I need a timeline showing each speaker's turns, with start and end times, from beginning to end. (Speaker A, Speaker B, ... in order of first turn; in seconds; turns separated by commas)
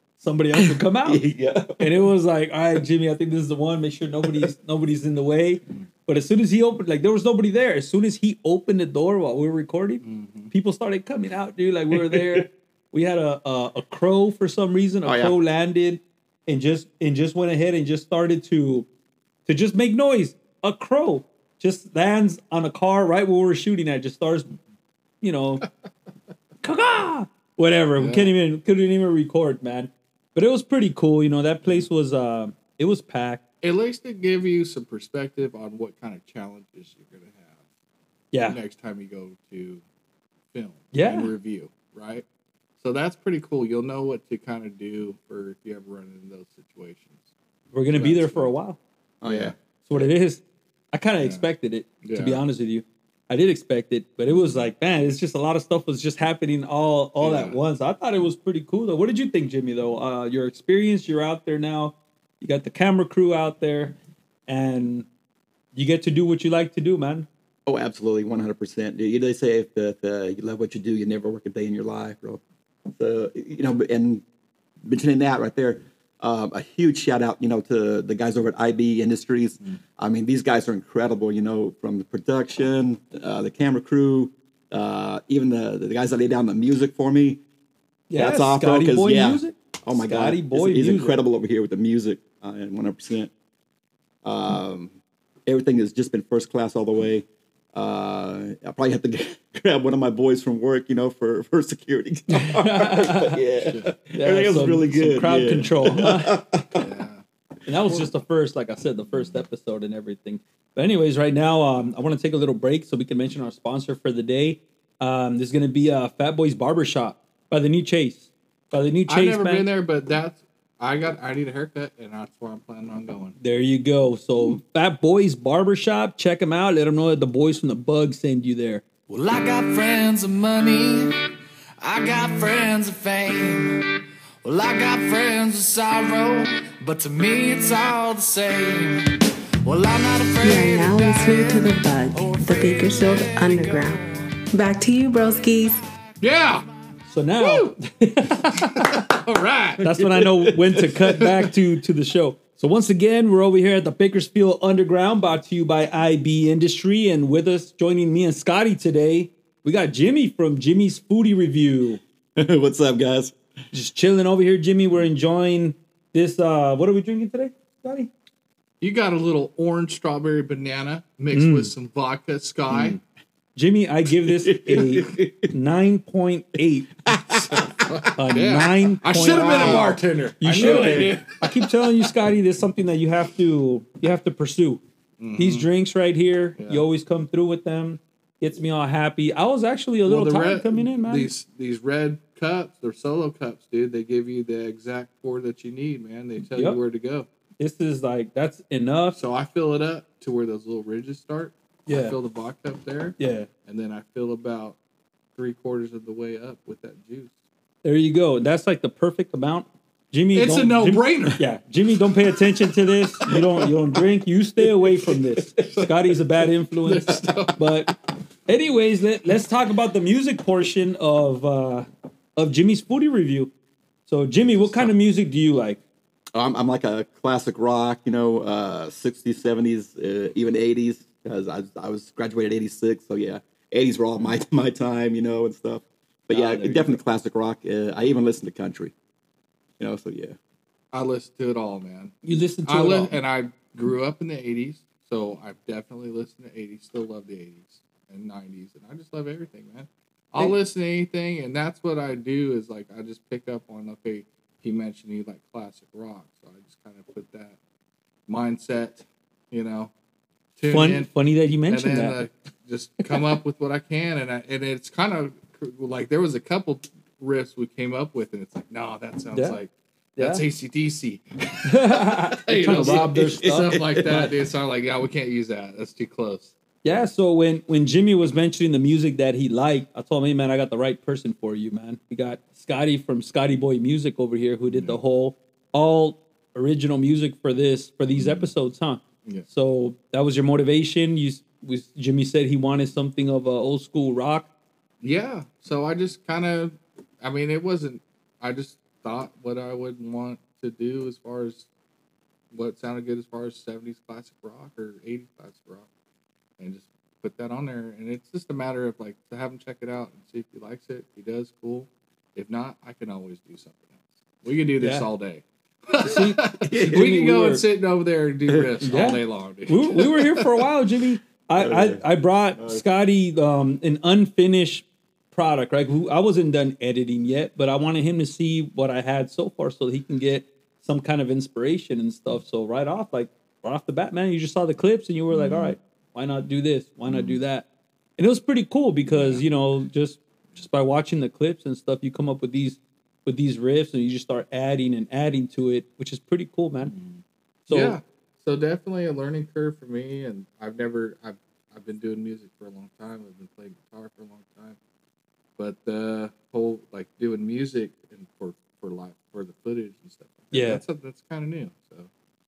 Speaker A: 0.2-18.9, Speaker B: 0.6-2.1, Speaker C: 10.0-10.5, Speaker B: 11.9-12.4, Speaker B: 15.0-15.3, Speaker A: 19.4-24.5, Speaker A: 25.2-25.6, Speaker A: 26.6-33.4, Speaker C: 28.0-28.3, Speaker C: 33.6-37.6, Speaker A: 38.3-38.6, Speaker C: 38.5-39.8, Speaker C: 40.5-42.2, Speaker A: 40.9-41.3, Speaker C: 42.8-47.3, Speaker A: 47.7-48.8, Speaker C: 47.9-48.5, Speaker B: 49.2-50.1, Speaker C: 49.2-49.5, Speaker A: 49.9-65.0, Speaker C: 51.2-51.5, Speaker C: 52.0-52.4, Speaker C: 57.2-57.6, Speaker A: 65.7-67.3, Speaker B: 67.7-74.2, Speaker B: 74.8-87.4, Speaker A: 88.1-91.2, Speaker B: 88.1-93.3, Speaker B: 94.2-94.9, Speaker B: 95.5-106.9, Speaker A: 102.3-103.4, Speaker C: 103.5-103.9, Speaker A: 104.1-106.4, Speaker C: 106.7-107.2, Speaker A: 107.7-119.7, Speaker C: 119.1-123.4, Speaker A: 123.4-128.8, Speaker D: 129.1-131.1, Speaker D: 131.8-133.8, Speaker D: 134.4-144.0, Speaker E: 140.4-145.8, Speaker C: 146.2-146.7, Speaker A: 147.1-149.1, Speaker C: 147.4-147.7, Speaker C: 148.4-151.5, Speaker A: 149.8-162.0, Speaker B: 162.4-163.3, Speaker A: 163.7-168.1, Speaker C: 168.8-173.0, Speaker A: 171.3-171.7, Speaker B: 172.7-173.0, Speaker A: 173.6-176.9, Speaker B: 174.2-175.5, Speaker B: 177.1-178.1, Speaker C: 177.5-181.3, Speaker A: 178.1-179.9, Speaker B: 179.2-180.0, Speaker A: 180.4-184.8, Speaker B: 180.6-181.2, Speaker C: 185.2-185.7, Speaker A: 185.3-191.3, Speaker C: 186.6-186.8, Speaker C: 190.1-197.3, Speaker A: 196.5-196.8, Speaker A: 197.6-199.2, Speaker C: 199.2-204.8, Speaker A: 201.9-202.2, Speaker A: 203.2-203.5, Speaker C: 205.3-207.3, Speaker A: 207.8-223.5, Speaker C: 210.3-211.4, Speaker C: 213.3-213.7, Speaker C: 214.8-217.7, Speaker A: 224.1-225.8, Speaker B: 226.3-238.9, Speaker A: 236.3-237.0, Speaker B: 239.8-240.3, Speaker C: 240.9-257.6, Speaker A: 242.2-243.2, Speaker C: 258.3-259.9, Speaker C: 260.6-261.1, Speaker A: 260.7-262.2, Speaker C: 261.7-277.0, Speaker A: 269.3-269.6, Speaker A: 270.2-270.4, Speaker A: 271.6-274.3, Speaker B: 272.7-274.1, Speaker A: 276.8-294.5, Speaker C: 284.7-285.0, Speaker C: 288.1-288.5, Speaker C: 295.0-301.7, Speaker C: 302.5-305.9, Speaker C: 306.6-320.1, Speaker A: 314.8-315.1, Speaker A: 316.0-317.6, Speaker B: 316.7-317.1, Speaker A: 318.8-337.6, Speaker B: 321.6-322.0, Speaker B: 322.6-322.8, Speaker C: 335.3-335.7, Speaker C: 337.1-337.4, Speaker A: 338.2-346.9, Speaker C: 339.1-339.4, Speaker C: 346.8-354.8, Speaker A: 347.7-348.0, Speaker C: 355.6-362.1, Speaker A: 360.5-360.8